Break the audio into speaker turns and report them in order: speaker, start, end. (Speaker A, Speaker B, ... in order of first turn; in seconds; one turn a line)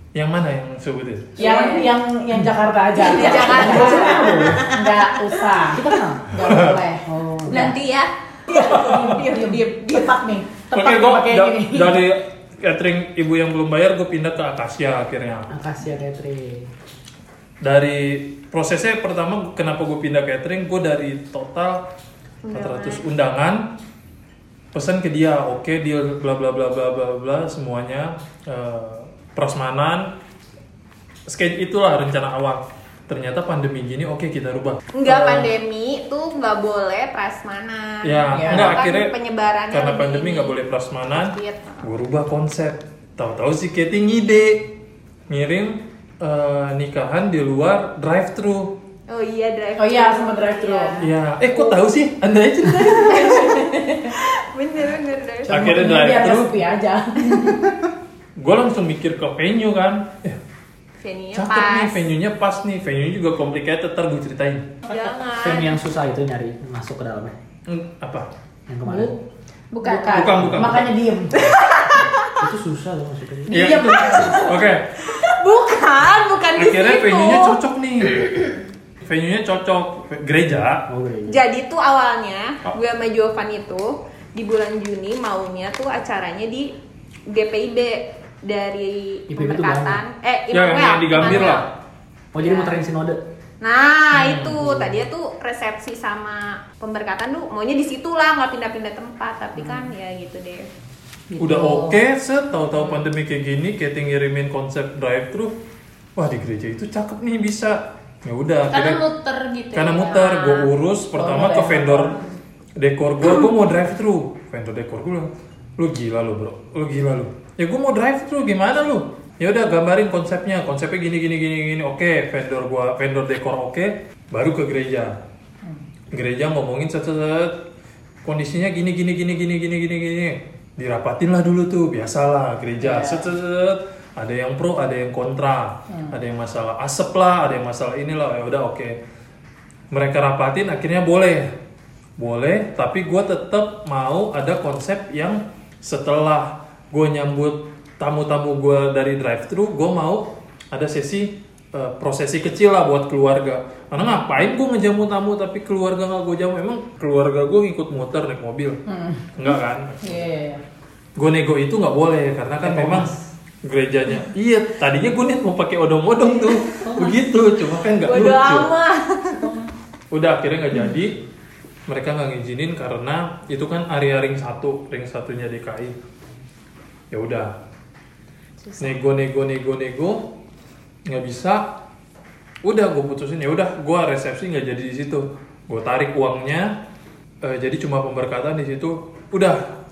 Speaker A: 0.1-1.4
Speaker B: 1.4-1.9
Speaker C: 1.4-7.8
Speaker D: 1.6-1.8
Speaker B: 3.0-4.6
Speaker D: 3.0-5.0
Speaker E: 3.4-4.7
Speaker E: 5.6-6.3
Speaker A: 6.4-6.8
Speaker E: 7.1-7.7
Speaker D: 7.5-10.2
Speaker C: 8.5-12.1
Speaker A: 8.5-9.1
Speaker A: 10.7-15.5
Speaker E: 15.5-16.7
Speaker A: 17.6-21.9
Speaker B: 22.4-23.1
Speaker A: 22.5-23.7
Speaker A: 24.7-30.1
Speaker A: 31.3-35.5
Speaker B: 34.9-41.9
Speaker A: 38.0-39.1
Speaker C: 38.4-38.8
Speaker A: 39.7-44.7
Speaker A: 45.3-48.8
Speaker B: 49.1-51.7
Speaker C: 49.8-51.0
Speaker A: 51.0-53.3
Speaker B: 53.1-55.6
Speaker C: 53.4-53.6
Speaker C: 55.5-57.8
Speaker A: 55.5-56.6
Speaker A: 58.4-60.4
Speaker B: 61.0-62.0
Speaker A: 61.3-64.7
Speaker B: 64.9-65.8
Speaker E: 65.4-67.3
Speaker A: 67.7-68.3
Speaker E: 68.7-69.2
Speaker C: 68.8-69.1
Speaker D: 69.7-70.3
Speaker C: 69.8-71.4
Speaker A: 70.1-71.6
Speaker E: 70.4-70.8
Speaker B: 71.3-72.3
Speaker E: 72.4-73.8
Speaker C: 73.5-74.5
Speaker A: 73.5-74.9
Speaker B: 75.1-77.6
Speaker A: 76.5-78.5
Speaker A: 79.0-80.8
Speaker E: 80.9-81.4
Speaker B: 81.3-86.7
Speaker B: 87.3-91.7
Speaker E: 89.3-90.0
Speaker A: 90.5-91.7
Speaker E: 92.3-93.2
Speaker B: 92.4-92.8
Speaker B: 93.6-100.7
Speaker E: 94.1-95.0
Speaker E: 101.3-102.0
Speaker A: 101.4-105.6
Speaker A: 106.2-109.0
Speaker D: 108.7-110.7
Speaker A: 109.7-112.2
Speaker C: 111.1-112.3
Speaker A: 112.8-125.2
Speaker A: 126.1-127.6
Speaker A: 128.2-138.9
Speaker C: 132.8-133.2
Speaker A: 139.9-141.5
Speaker A: 142.2-158.8
Speaker C: 158.9-159.4
Speaker A: 159.4-160.3
Speaker C: 160.0-160.6
Speaker A: 161.2-163.1
Speaker E: 162.6-163.3
Speaker A: 163.6-168.7
Speaker E: 166.8-167.2
Speaker B: 168.0-169.4
Speaker E: 169.4-169.7
Speaker A: 170.1-171.2
Speaker A: 171.9-176.0
Speaker A: 177.1-177.5
Speaker B: 178.7-178.9
Speaker A: 178.8-180.3
Speaker A: 181.1-181.7
Speaker A: 182.6-186.7
Speaker A: 187.4-189.6